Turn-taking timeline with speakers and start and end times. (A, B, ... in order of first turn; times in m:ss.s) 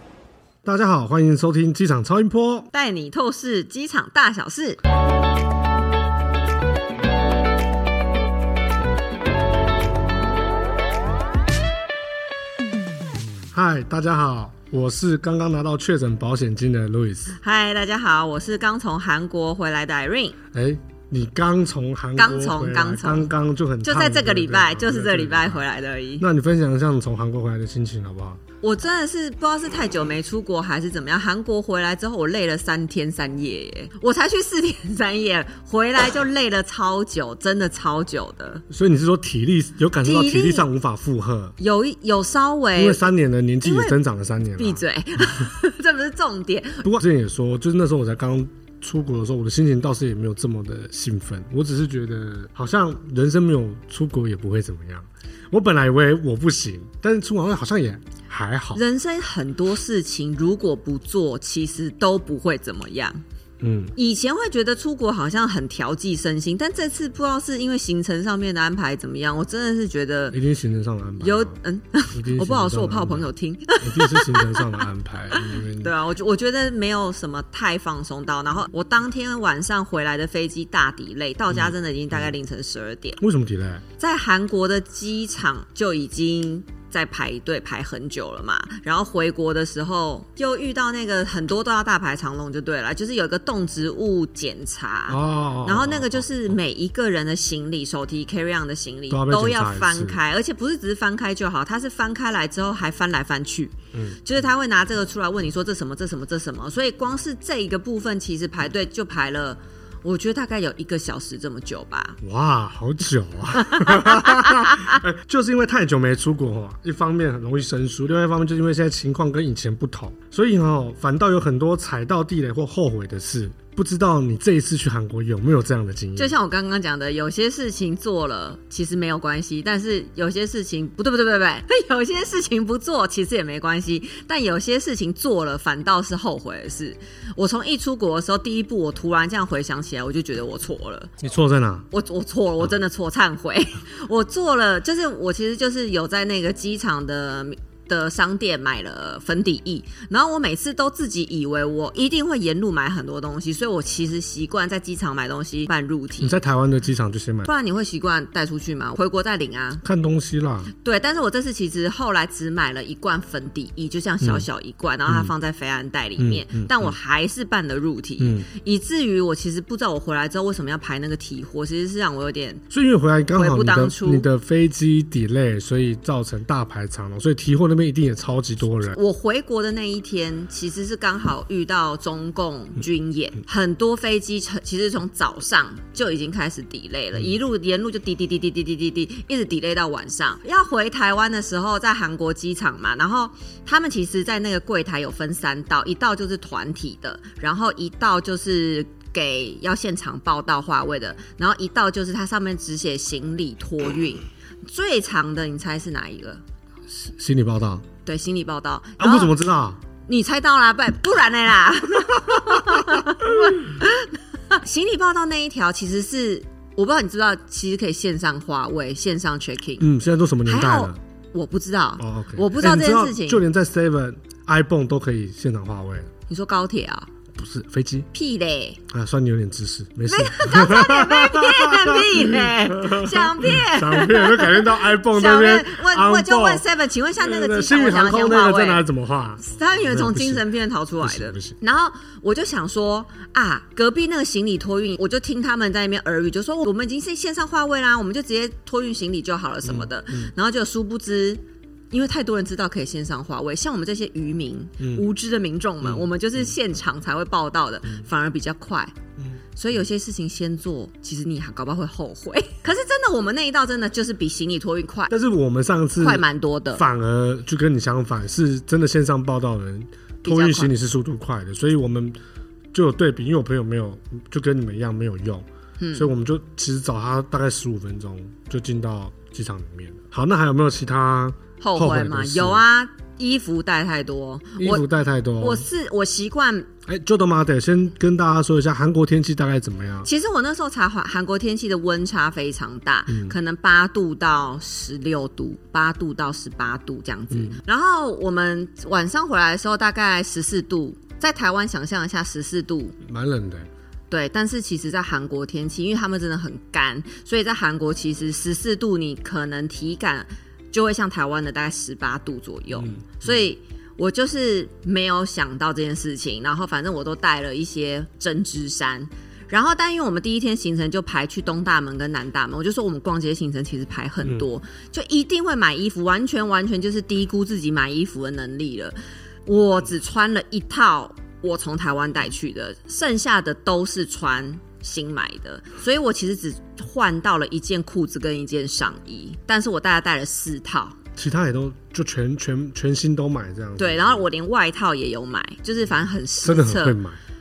0:00.6-0:02.7 A
0:02.7-0:04.8 B
0:13.4-0:17.4 A
0:17.3-0:20.4 B
0:20.5-0:25.6 A
0:22.2-0:23.3 B
0:23.8-0:26.2 B
0:26.2-0:28.4 A
0:28.6-0:38.6 B
0:38.7-0:41.6 A
0:40.0-0:40.7 B
0:41.6-0:43.1 B
0:42.8-0:44.8 A
0:43.6-0:44.0 B
0:44.6-0:46.9 B
0:46.8-0:58.8 A
0:58.7-1:03.2 B
1:03.6-1:04.0 A
1:04.0-1:10.4 B
1:10.3-1:11.6 A
1:11.2-1:14.8 B
1:12.1-1:13.3 A
1:13.8-1:15.9 A
1:15.4-1:23.2 B
1:21.5-1:22.3 A
1:23.2-1:23.8 A
1:24.0-1:52.2 B
1:35.1-1:36.5 A
1:39.1-1:40.2 A
1:43.9-1:44.2 A
1:52.2-2:06.4 A
1:53.6-1:55.0 B
2:06.2-2:21.1 B
2:21.2-2:21.9 A
2:21.9-2:36.4 B
2:36.2-2:37.5 A
2:37.5-2:39.8 B
2:39.8-2:40.7 A
2:40.8-2:52.6 B
2:44.2-2:44.5 A
2:45.1-2:45.3 A
2:46.2-2:47.0 A
2:48.2-2:48.5 A
2:52.7-2:59.0 A
2:53.3-2:54.3 B
2:58.9-3:26.4 B
3:27.0-3:27.8 A
3:28.0-3:29.4 B
3:29.0-3:29.8 A
3:30.1-3:39.9 B
3:39.8-3:41.0 A
3:40.4-3:43.4 B
3:42.0-3:46.1 A
3:46.3-3:47.1 B
3:47.3-3:48.1 A
3:48.1-3:48.8 B
3:48.9-3:56.6 A
3:50.1-3:58.9 B
3:57.2-4:00.4 A
3:59.4-4:18.9 B
4:01.0-4:01.6 A
4:09.6-4:10.3 A
4:14.8-4:15.0 A
4:15.8-4:16.1 A
4:19.6-4:25.1 B
4:25.1-4:26.2 A
4:26.0-4:26.8 B
4:26.8-4:32.2 A
4:30.2-4:30.7 B
4:32.7-4:42.6 A
4:35.8-4:36.1 B
4:41.6-4:44.8 B
4:44.6-4:45.7 A
4:45.4-4:46.7 B
4:46.9-4:50.1 A
4:50.0-5:03.0 B
4:53.1-4:53.4 A
4:57.3-4:57.6 A
5:03.0-5:03.7 A
5:04.1-5:29.0 B
5:12.7-5:13.5 A
5:29.5-5:41.0 B
5:41.2-5:44.2 A
5:43.8-5:47.0 B
5:46.4-5:47.2 A